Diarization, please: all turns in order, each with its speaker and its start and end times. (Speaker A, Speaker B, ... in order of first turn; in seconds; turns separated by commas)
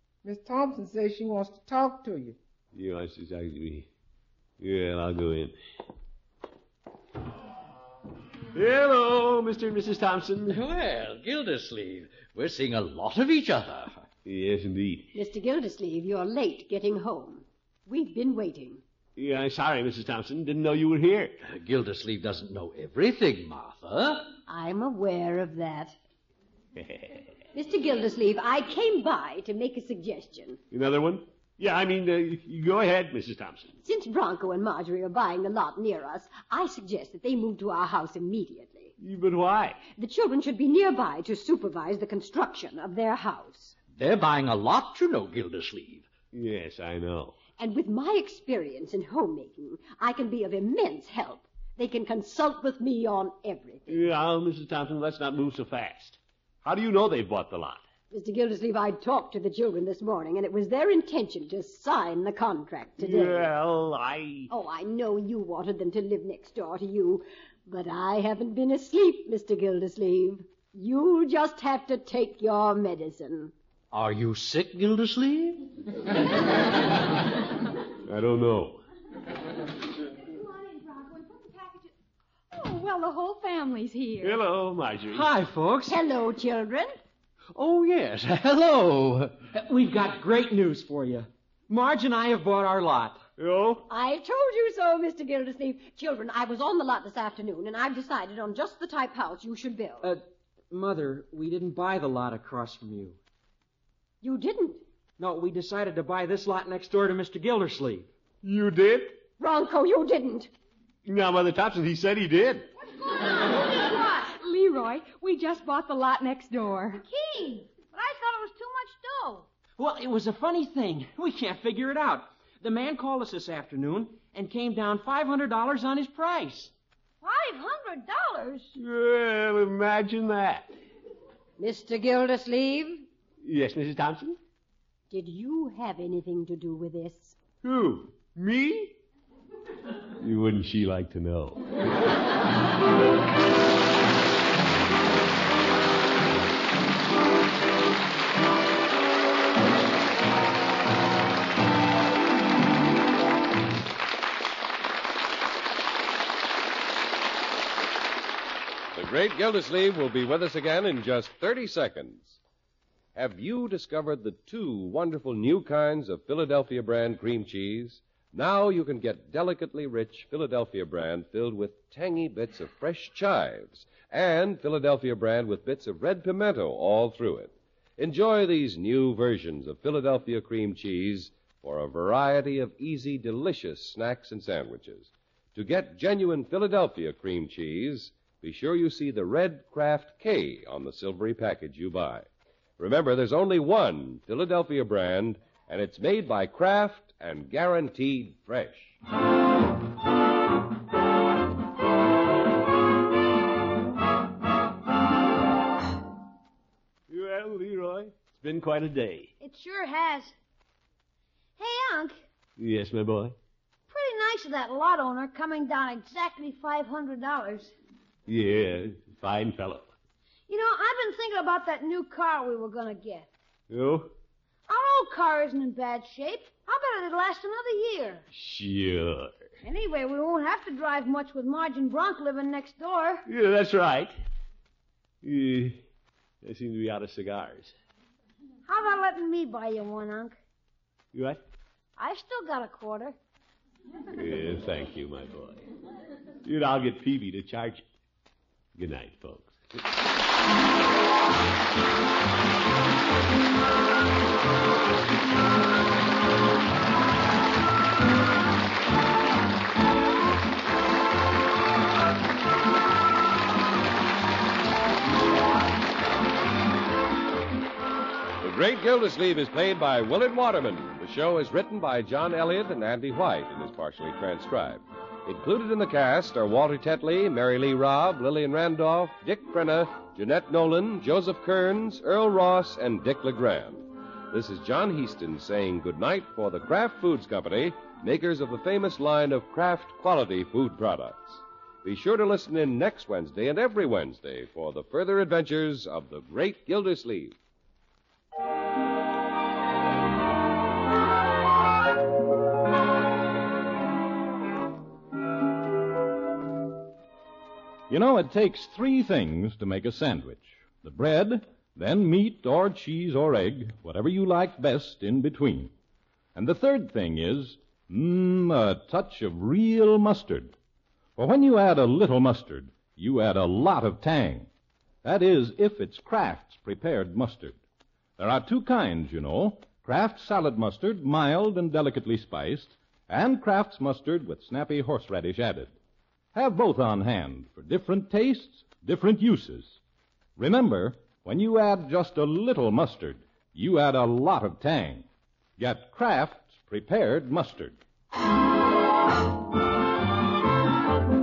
Speaker A: 0.2-2.4, Speaker B: 2.7-3.9, Speaker B: 4.6-5.5, Speaker B: 8.5-10.6, Speaker C: 10.5-14.0, Speaker B: 14.2-15.1, Speaker D: 15.1-18.8, Speaker B: 19.1-21.4, Speaker C: 21.4-24.3, Speaker D: 24.5-26.0, Speaker B: 26.8-27.3, Speaker D: 27.5-30.6, Speaker B: 30.7-33.7, Speaker D: 33.8-38.9, Speaker B: 39.0-39.8, Speaker D: 39.9-43.8, Speaker C: 43.9-46.1, Speaker B: 46.3-47.4, Speaker D: 47.5-54.0, Speaker B: 53.9-57.8, Speaker D: 58.1-63.5, Speaker B: 63.0-64.5, Speaker D: 64.5-73.5, Speaker C: 73.9-75.6, Speaker B: 78.0-78.8, Speaker E: 80.2-81.9, Speaker E: 82.5-84.4, Speaker B: 84.2-85.3, Speaker F: 85.1-86.0, Speaker D: 85.9-87.0, Speaker C: 87.5-89.3, Speaker F: 89.5-93.2, Speaker B: 93.4-93.8, Speaker D: 93.9-100.1, Speaker F: 100.0-103.2, Speaker D: 104.2-104.8, Speaker F: 105.2-108.1, Speaker B: 108.4-109.2, Speaker D: 109.4-110.5, Speaker B: 111.0-112.7, Speaker G: 112.9-114.3, Speaker E: 114.3-117.0, Speaker G: 116.9-119.5, Speaker F: 119.8-126.7, Speaker G: 127.2-128.7, Speaker B: 128.8-130.7, Speaker D: 131.6-133.0, Speaker B: 133.4-134.4, Speaker D: 135.1-137.4, Speaker B: 137.6-139.0, Speaker B: 140.2-141.7, Speaker H: 158.9-162.4, Speaker H: 163.1-192.3, Speaker H: 192.8-199.0, Speaker B: 207.1-209.3, Speaker G: 209.4-210.3, Speaker G: 211.6-212.2, Speaker B: 212.6-213.3, Speaker G: 213.9-217.7, Speaker B: 218.3-219.9, Speaker G: 220.5-223.3, Speaker B: 223.7-224.1, Speaker G: 224.7-228.2, Speaker B: 228.3-229.4, Speaker G: 229.6-233.2, Speaker B: 233.2-234.1, Speaker B: 235.2-235.8, Speaker B: 236.4-237.7, Speaker G: 238.6-240.3, Speaker B: 241.1-241.4, Speaker G: 242.0-243.2, Speaker B: 244.1-245.7, Speaker B: 246.4-247.8, Speaker B: 248.8-249.8, Speaker H: 268.4-297.4, Speaker I: 307.9-315.7, Speaker I: 316.3-320.5, Speaker I: 321.2-324.5, Speaker I: 325.0-327.6, Speaker I: 328.2-335.7, Speaker I: 336.3-339.8, Speaker I: 340.4-345.1, Speaker I: 345.6-347.8